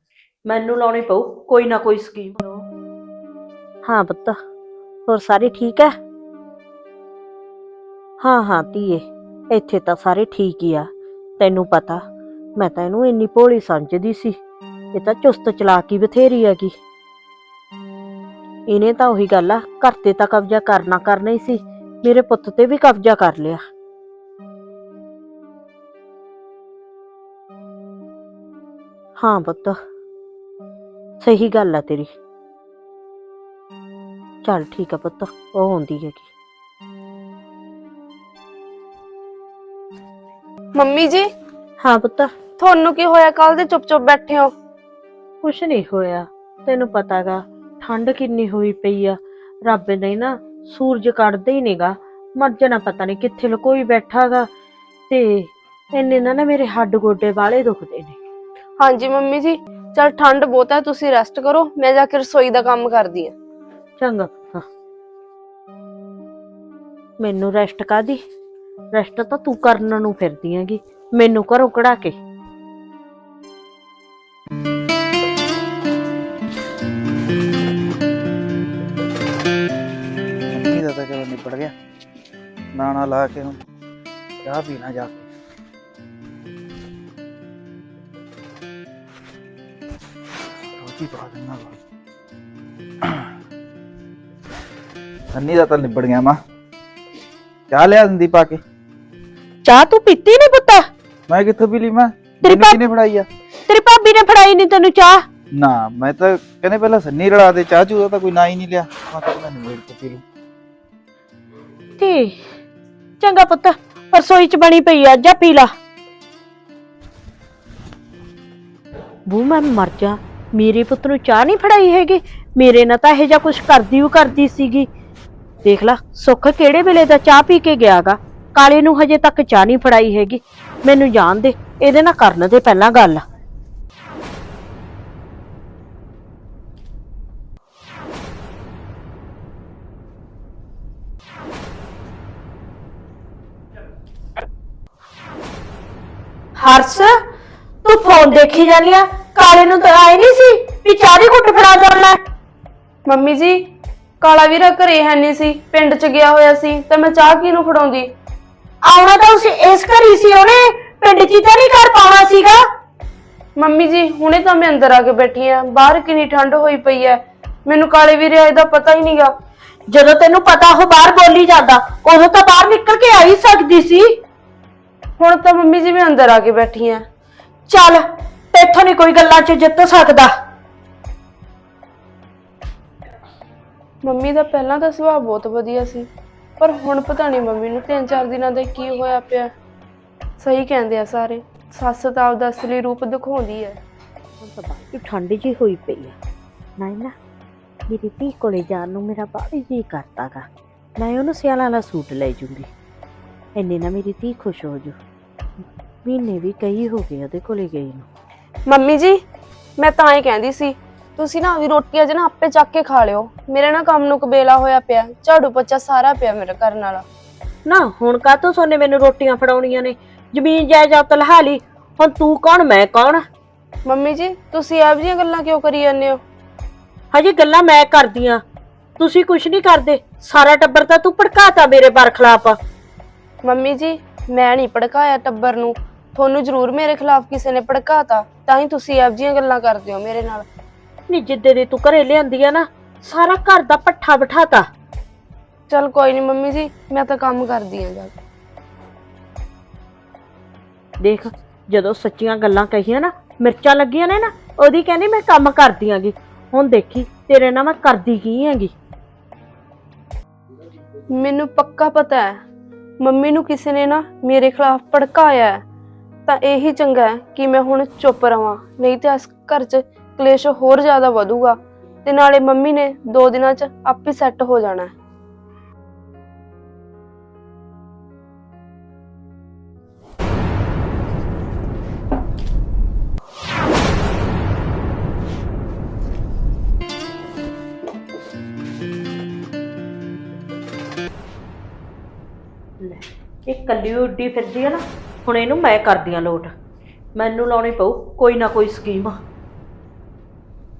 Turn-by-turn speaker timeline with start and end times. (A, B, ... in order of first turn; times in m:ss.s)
0:00.4-0:02.6 A
0:03.8-0:04.4 A
0:05.1-0:05.9 A
0:08.2-0:12.0 A
0:12.6-0:14.4 A
0:14.9-0:16.7 A
0:18.7-0:23.6 A
0:29.2-0:29.8 A
0:31.2-0:32.1 A
0:34.4-0:36.3 A
0:40.8-0:41.3 B
0:41.8-0:42.3 A
0:42.6-0:44.5 B
0:45.4-0:54.5 A
0:55.1-0:58.2 A
0:58.8-1:03.3 B
1:04.0-1:04.6 A
1:07.2-1:08.2 A
1:08.9-1:12.2 A
1:20.5-1:21.7 C
1:22.7-1:23.6 C
1:24.4-1:25.2 C
1:30.8-1:31.8 C
1:35.3-1:36.4 C
1:37.7-1:38.6 C
1:39.6-1:40.9 A
1:41.3-1:43.2 C
1:42.4-1:42.8 A
1:43.7-1:45.2 A
1:45.5-1:50.2 C
1:52.0-1:52.4 A
1:53.2-1:55.7 A
1:59.2-2:04.9 A
2:05.6-2:13.2 A
2:26.6-2:27.1 A
2:27.8-2:32.2 A
2:33.0-2:33.6 B
2:34.2-2:38.1 B
2:38.8-2:42.6 A
2:43.6-2:49.3 B
2:49.9-2:54.1 A
2:55.2-2:57.0 B
2:57.7-3:00.3 A
3:04.0-3:06.1 B
3:06.6-3:09.5 B
3:10.4-3:13.8 B
3:14.4-3:16.2 A
3:16.8-3:17.1 A
3:17.9-3:22.7 A
3:23.6-3:25.0 A
3:26.0-3:28.1 A
3:28.7-3:29.2 B
3:29.8-3:37.0 B
3:37.6-3:43.2 A
3:43.8-3:46.2 B
3:47.1-3:48.4 A
3:49.0-3:52.6 A
3:53.4-4:00.5 B
4:01.1-4:04.7 A
4:05.7-4:08.1 B
4:11.0-4:18.7 A
4:21.1-4:22.4 B
4:23.0-4:25.6 B
4:26.3-4:34.9 B
4:52.8-4:56.5 A
4:57.1-4:59.2 A